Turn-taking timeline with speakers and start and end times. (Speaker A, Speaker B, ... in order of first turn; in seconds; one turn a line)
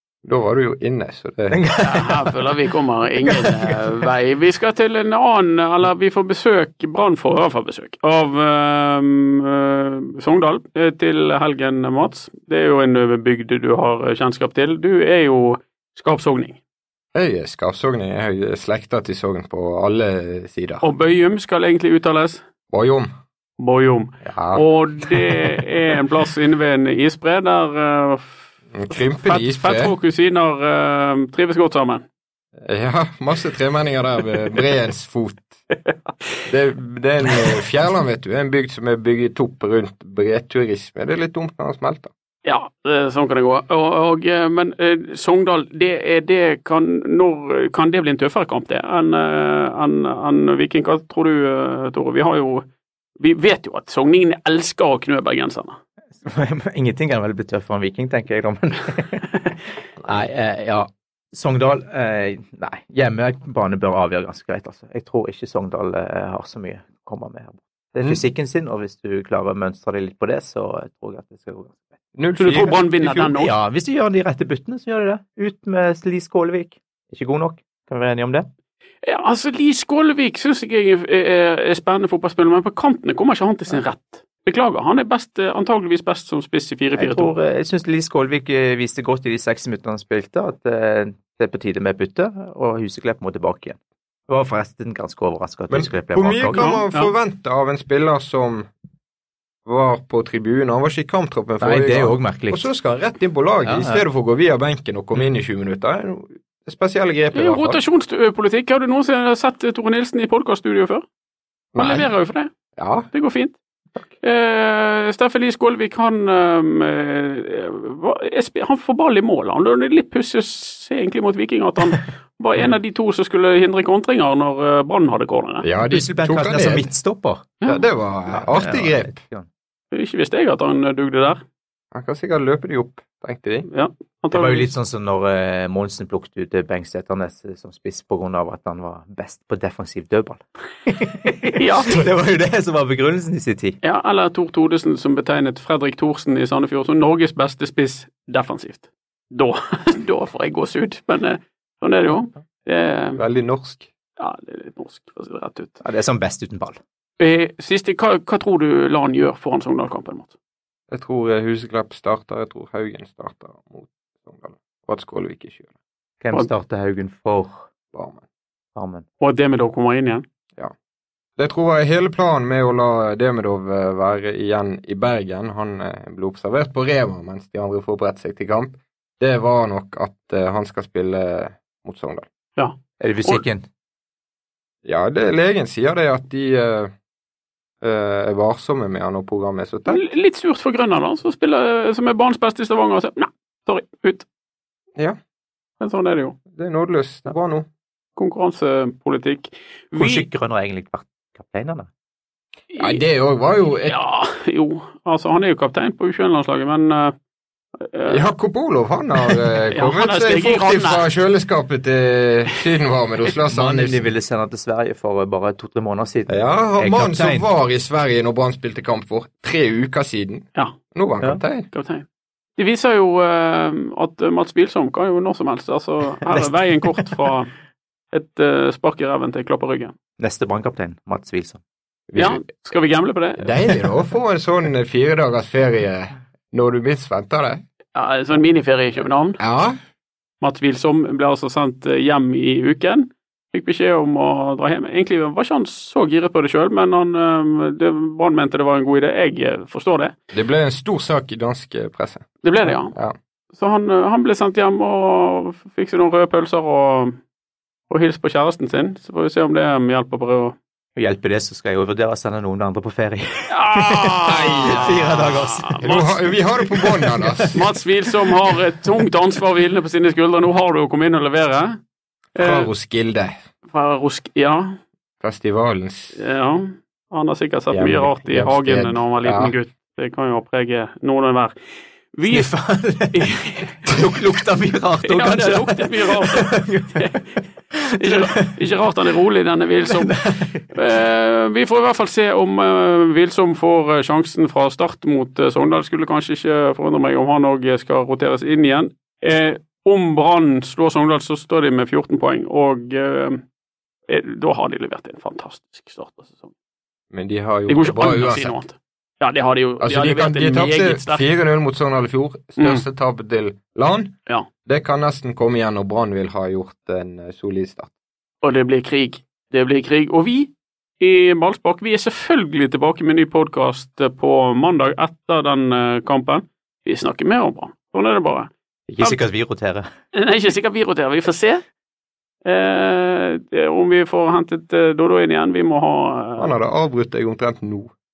Speaker A: 0.2-1.6
Speaker B: 1.5-2.3
Speaker C: 1.8-16.6
Speaker B: 3.2-3.8
Speaker A: 17.1-20.8
Speaker C: 20.8-22.4
Speaker A: 22.7-23.1
Speaker C: 23.6-28.5
Speaker A: 24.2-25.4
Speaker A: 28.7-29.9
Speaker C: 29.2-32.0
Speaker A: 32.6-35.5
Speaker A: 36.5-42.1
Speaker C: 42.4-52.6
Speaker C: 53.2-55.8
Speaker B: 56.2-59.5
Speaker B: 60.0-71.9
Speaker A: 72.1-73.3
Speaker C: 72.4-73.5
Speaker B: 73.3-78.5
Speaker C: 79.0-87.3
Speaker B: 87.0-96.7
Speaker A: 95.7-98.7
Speaker C: 96.5-97.1
Speaker A: 99.7-107.8
Speaker B: 101.6-102.6
Speaker B: 103.6-104.0
Speaker C: 107.3-111.0
Speaker A: 111.7-112.1
Speaker C: 111.8-112.5
Speaker A: 112.8-113.1
Speaker C: 113.1-113.5
Speaker C: 114.2-125.7
Speaker A: 125.6-126.9
Speaker B: 125.9-127.5
Speaker A: 127.7-129.2
Speaker B: 128.3-129.5
Speaker C: 129.9-131.4
Speaker A: 131.9-133.7
Speaker C: 133.7-134.7
Speaker B: 134.3-143.8
Speaker C: 141.4-142.0
Speaker C: 143.8-153.2
Speaker A: 153.2-153.9
Speaker C: 154.2-155.8
Speaker B: 155.8-156.8
Speaker C: 157.2-160.3
Speaker A: 160.9-165.7
Speaker B: 166.2-167.6
Speaker A: 167.9-168.2
Speaker B: 168.8-169.0
Speaker C: 169.2-170.2
Speaker A: 171.4-182.2
Speaker C: 182.6-183.4
Speaker B: 183.0-183.6
Speaker A: 184.8-186.9
Speaker A: 187.8-190.0
Speaker C: 189.9-194.2
Speaker C: 195.8-196.3
Speaker A: 196.5-197.7
Speaker C: 198.2-200.2
Speaker B: 199.9-201.9
Speaker C: 202.7-203.0
Speaker A: 202.8-204.0
Speaker C: 203.8-207.1
Speaker C: 207.8-208.2
Speaker A: 208.1-214.0
Speaker C: 209.3-211.1
Speaker B: 213.5-217.5
Speaker A: 216.3-221.7
Speaker C: 221.7-222.0
Speaker C: 222.6-227.5
Speaker B: 226.2-227.1
Speaker C: 228.1-229.9
Speaker B: 230.2-231.6
Speaker A: 232.1-232.4
Speaker C: 232.2-233.5
Speaker A: 233.4-237.6
Speaker C: 237.9-239.4
Speaker A: 239.4-239.7
Speaker C: 240.4-250.1
Speaker A: 250.3-252.3
Speaker C: 252.4-252.9
Speaker C: 253.5-257.2
Speaker C: 257.9-260.6
Speaker B: 260.9-265.8
Speaker C: 263.5-266.1
Speaker A: 264.2-264.9
Speaker A: 265.8-267.6
Speaker C: 267.5-271.8
Speaker C: 272.4-272.7
Speaker A: 272.4-273.3
Speaker C: 273.7-274.8
Speaker A: 275.2-276.2
Speaker C: 276.1-281.5
Speaker A: 277.7-279.5
Speaker C: 282.1-282.5
Speaker B: 282.2-283.3
Speaker C: 283.1-283.8
Speaker B: 283.8-288.5
Speaker C: 285.0-287.2
Speaker C: 287.9-303.4
Speaker B: 289.9-290.2
Speaker C: 304.1-306.5
Speaker A: 307.1-308.5
Speaker C: 307.7-311.2
Speaker A: 309.8-314.1
Speaker C: 312.6-312.8
Speaker A: 314.6-317.9
Speaker C: 318.4-329.2
Speaker B: 328.9-329.9
Speaker C: 330.1-331.6
Speaker C: 332.4-336.5
Speaker A: 336.4-337.9